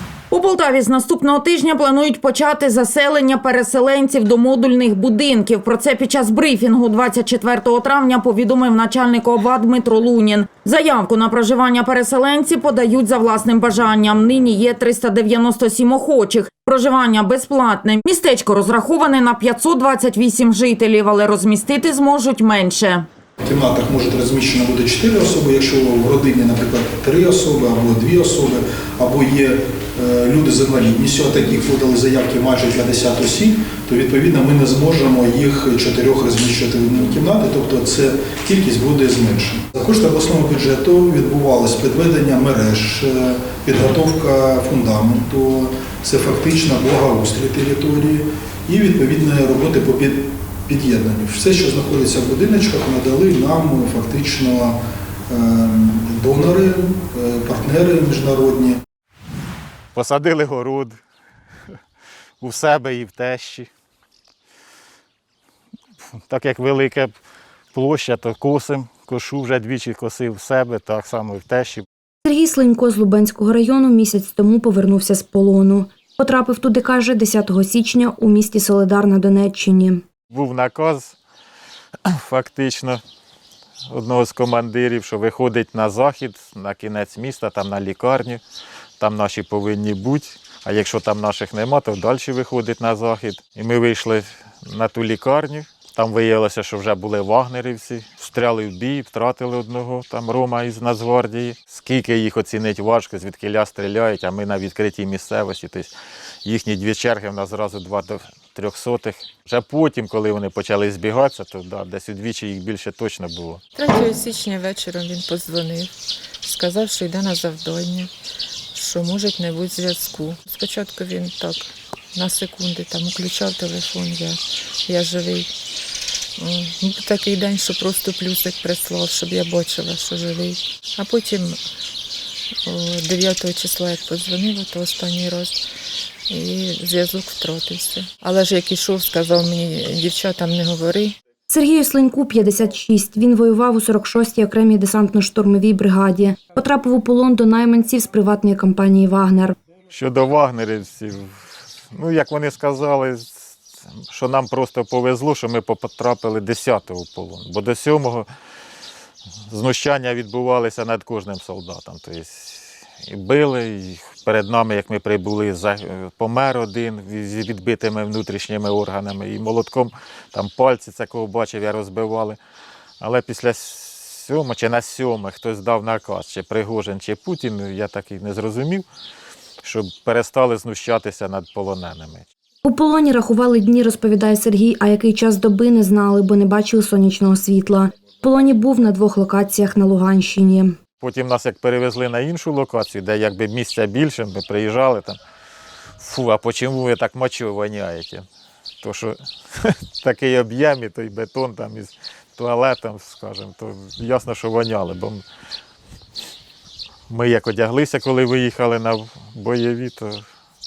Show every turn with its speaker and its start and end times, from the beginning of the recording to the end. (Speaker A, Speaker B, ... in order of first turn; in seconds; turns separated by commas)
Speaker A: 0.3-23.1, Speaker B: 23.4-54.8, Speaker B: 55.3-58.8, Speaker C: 59.9-61.0, Speaker C: 62.4-63.7, Speaker C: 66.3-67.1, Speaker C: 67.7-71.8, Speaker D: 72.2-80.0, Speaker C: 80.3-81.2, Speaker C: 82.1-83.0, Speaker C: 83.9-88.4, Speaker C: 89.0-105.9, Speaker C: 106.4-113.6, Speaker E: 113.8-118.1, Speaker E: 118.7-125.5, Speaker E: 126.4-131.6, Speaker E: 132.7-135.6, Speaker E: 136.3-141.1, Speaker D: 141.5-149.5, Speaker C: 149.9-151.3, Speaker C: 151.9-153.6, Speaker C: 154.1-158.3, Speaker C: 159.5-172.4, Speaker C: 173.0-178.8, Speaker C: 179.6-182.2, Speaker D: 182.6-190.8, Speaker C: 191.0-195.2, Speaker C: 196.0-198.2, Speaker C: 198.8-205.2, Speaker C: 207.1-210.2